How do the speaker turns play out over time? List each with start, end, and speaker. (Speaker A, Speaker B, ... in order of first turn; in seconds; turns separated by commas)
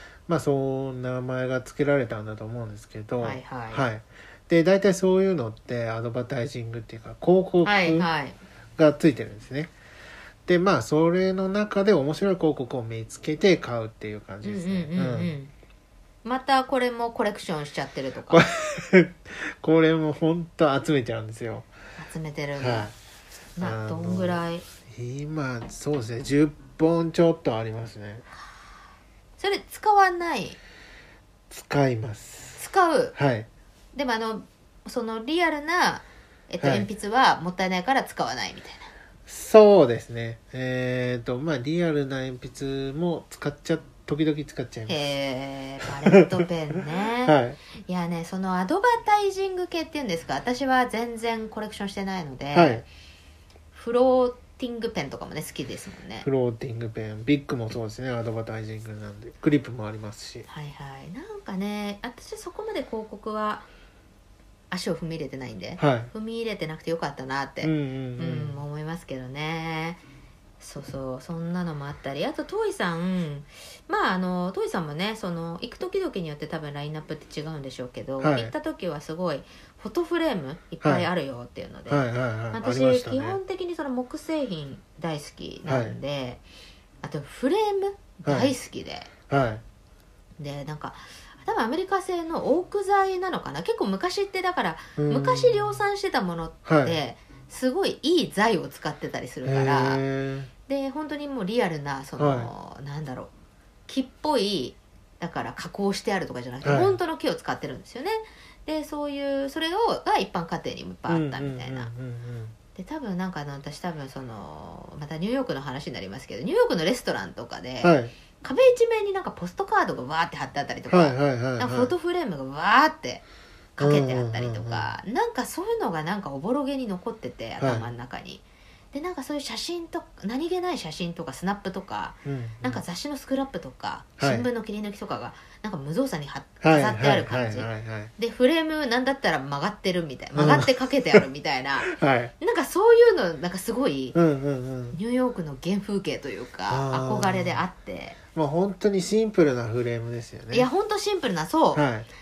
Speaker A: 0.3-8.1, Speaker B: 3.2-3.9, Speaker B: 7.6-8.4, Speaker A: 8.8-9.7, Speaker A: 10.5-15.3, Speaker B: 14.4-15.5, Speaker B: 16.2-18.5, Speaker A: 18.3-21.7, Speaker B: 22.0-22.9, Speaker A: 22.6-22.9, Speaker B: 23.6-24.6, Speaker A: 23.6-28.2, Speaker B: 29.4-30.6, Speaker A: 31.5-32.6, Speaker B: 32.5-33.1, Speaker A: 33.1-33.5, Speaker B: 33.9-38.9, Speaker A: 36.6-36.9, Speaker A: 39.3-45.0, Speaker B: 44.9-47.4, Speaker A: 46.1-46.5, Speaker A: 47.2-47.6, Speaker B: 47.9-52.9, Speaker A: 52.5-52.8, Speaker B: 53.7-56.3, Speaker A: 56.2-60.5, Speaker B: 60.5-63.7, Speaker B: 64.7-70.0, Speaker A: 65.8-66.1, Speaker A: 67.6-68.6, Speaker B: 70.6-86.4, Speaker A: 78.2-78.5, Speaker A: 80.8-81.1, Speaker A: 81.9-83.4, Speaker A: 85.7-86.0, Speaker B: 87.0-89.1, Speaker A: 88.3-88.5, Speaker A: 89.3-89.6, Speaker B: 90.4-100.0, Speaker A: 95.0-95.8, Speaker A: 96.7-97.0, Speaker A: 99.5-100.5, Speaker B: 100.7-103.3, Speaker A: 102.2-102.5, Speaker B: 103.9-111.9, Speaker A: 106.6-107.0, Speaker A: 111.1-112.5, Speaker B: 112.8-123.2, Speaker A: 117.8-118.1, Speaker A: 120.9-121.9, Speaker B: 123.8-144.2, Speaker A: 123.8-124.9, Speaker A: 127.6-127.9, Speaker A: 132.2-132.8, Speaker A: 134.2-134.5, Speaker A: 136.6-138.1, Speaker A: 140.3-141.2, Speaker A: 141.9-142.3, Speaker A: 144.1-145.0, Speaker B: 144.9-148.2, Speaker A: 146.7-147.6, Speaker A: 148.3-150.7, Speaker B: 150.5-151.8, Speaker A: 151.7-152.1